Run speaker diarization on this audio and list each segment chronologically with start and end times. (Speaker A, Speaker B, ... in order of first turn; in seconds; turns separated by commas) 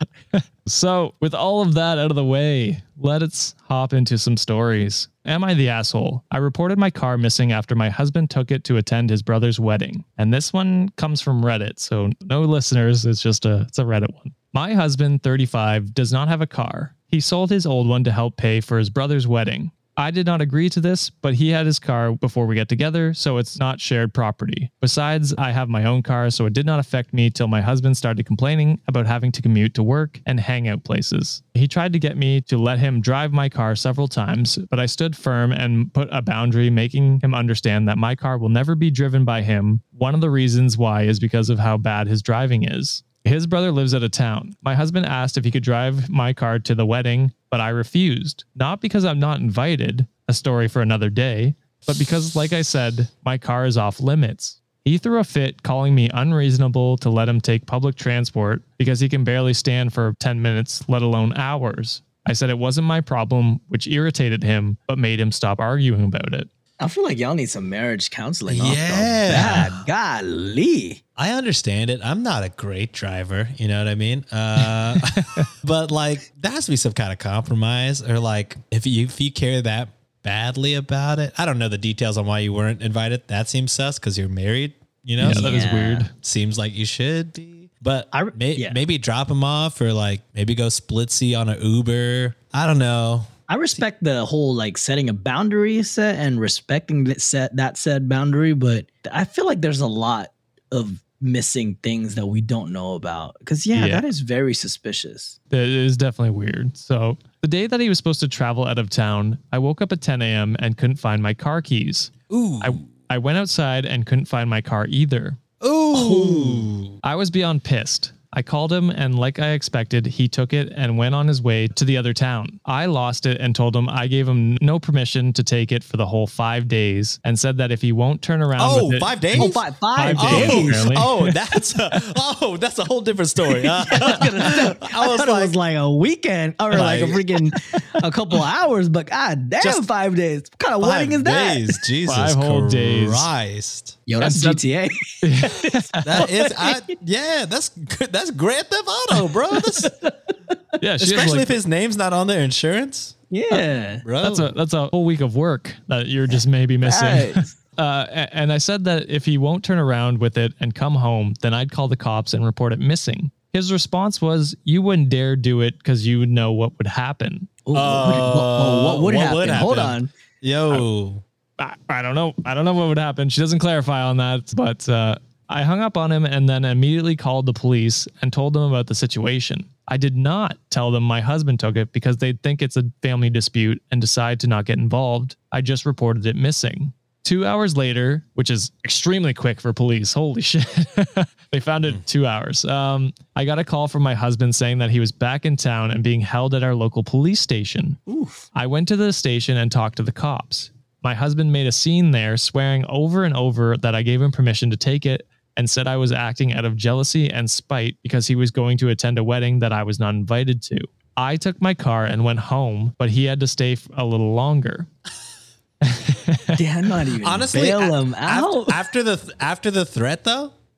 Speaker A: 0.3-66.5, Speaker B: 66.8-71.0, Speaker C: 68.5-69.8, Speaker C: 71.2-85.6, Speaker A: 75.0-75.5, Speaker A: 85.2-86.1, Speaker B: 85.2-86.1, Speaker C: 86.2-93.3, Speaker B: 88.1-88.8, Speaker B: 93.5-105.4, Speaker A: 103.7-104.0, Speaker A: 105.5-115.4, Speaker C: 112.3-112.8, Speaker C: 115.6-117.0, Speaker B: 115.9-116.7, Speaker A: 117.0-131.3, Speaker C: 128.6-129.6, Speaker B: 129.4-130.9, Speaker C: 130.1-135.5, Speaker B: 133.6-141.8, Speaker C: 136.7-137.2, Speaker C: 139.6-139.8, Speaker C: 140.8-144.0, Speaker A: 142.1-143.3, Speaker B: 144.1-146.9, Speaker A: 144.2-144.6, Speaker A: 145.2-146.2, Speaker C: 146.1-149.9, Speaker B: 149.8-150.1, Speaker A: 150.8-151.6, Speaker C: 151.0-153.2, Speaker B: 153.3-154.1, Speaker C: 154.0-154.5, Speaker A: 154.2-167.5, Speaker B: 156.8-157.5, Speaker B: 167.7-170.1, Speaker C: 167.7-171.2, Speaker A: 171.6-198.0, Speaker B: 198.1-198.5, Speaker A: 198.6-214.9, Speaker A: 215.8-216.6, Speaker B: 216.6-218.9, Speaker C: 217.2-220.5